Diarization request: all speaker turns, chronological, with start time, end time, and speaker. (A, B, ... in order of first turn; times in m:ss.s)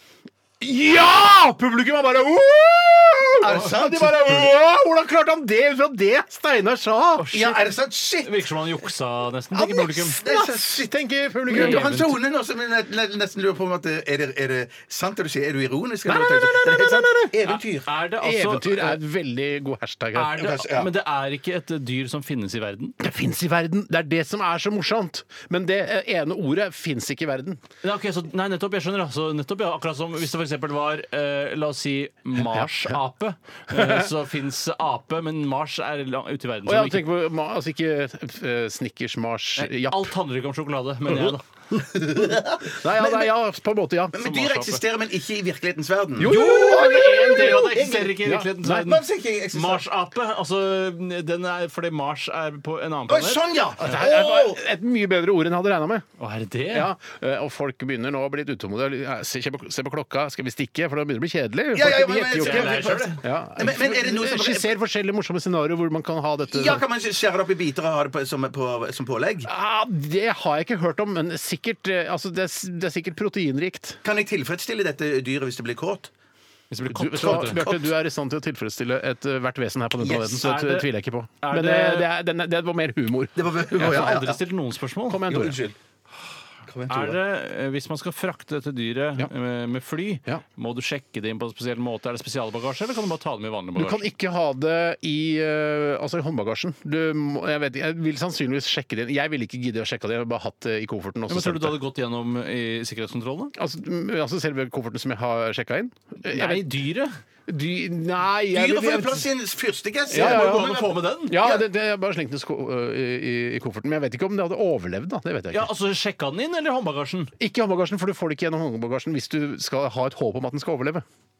0:00.6-0:07.4 A
0:03.4-0:04.5 B
0:07.2-0:07.6 C
0:07.3-0:08.4 B
0:08.2-0:10.2 C
0:09.5-0:12.0 A
0:10.2-0:10.9 B
0:11.5-0:17.9 B
0:11.5-0:12.1 C
0:16.1-0:17.3 A
0:17.4-0:19.0 C
0:18.2-0:20.4 A
0:20.2-0:23.0 C
0:20.4-0:20.9 B
0:23.0-0:27.6 A
0:27.8-0:37.0 C
0:32.4-0:33.0 A
0:33.7-0:34.1 A
0:36.7-0:40.1 A
0:39.6-0:41.4 C
0:41.8-0:43.3 B
0:42.2-0:44.2 A
0:44.1-0:49.8 B
0:44.2-0:44.8 C
0:46.2-0:48.8 A
0:46.2-0:49.0 C
0:49.5-0:53.5 C
0:53.1-0:54.6 B
0:53.8-0:56.1 A
0:56.2-0:56.9 C
0:56.7-1:06.8 A
1:01.7-1:04.7 B
1:02.4-1:03.2 C
1:06.5-1:09.5 B
1:09.5-1:14.0 A
1:14.0-1:16.1 B
1:16.7-1:17.6 C
1:16.9-1:23.9 A
1:17.2-1:17.9 B
1:20.0-1:20.4 B
1:20.4-1:20.9 C
1:21.4-1:22.1 C
1:23.4-1:24.4 B
1:23.7-1:25.2 C
1:25.1-1:25.6 A
1:25.3-1:25.8 B
1:26.7-1:27.2 B
1:26.9-1:34.0 C
1:33.8-1:41.8 A
1:41.3-1:43.5 C
1:43.6-1:46.8 A
1:46.2-1:47.2 C
1:47.5-1:49.3 A
1:48.5-1:51.6 B
1:50.1-1:55.7 A
1:50.1-1:51.4 C
1:55.5-1:57.3 C
1:57.4-2:01.0 A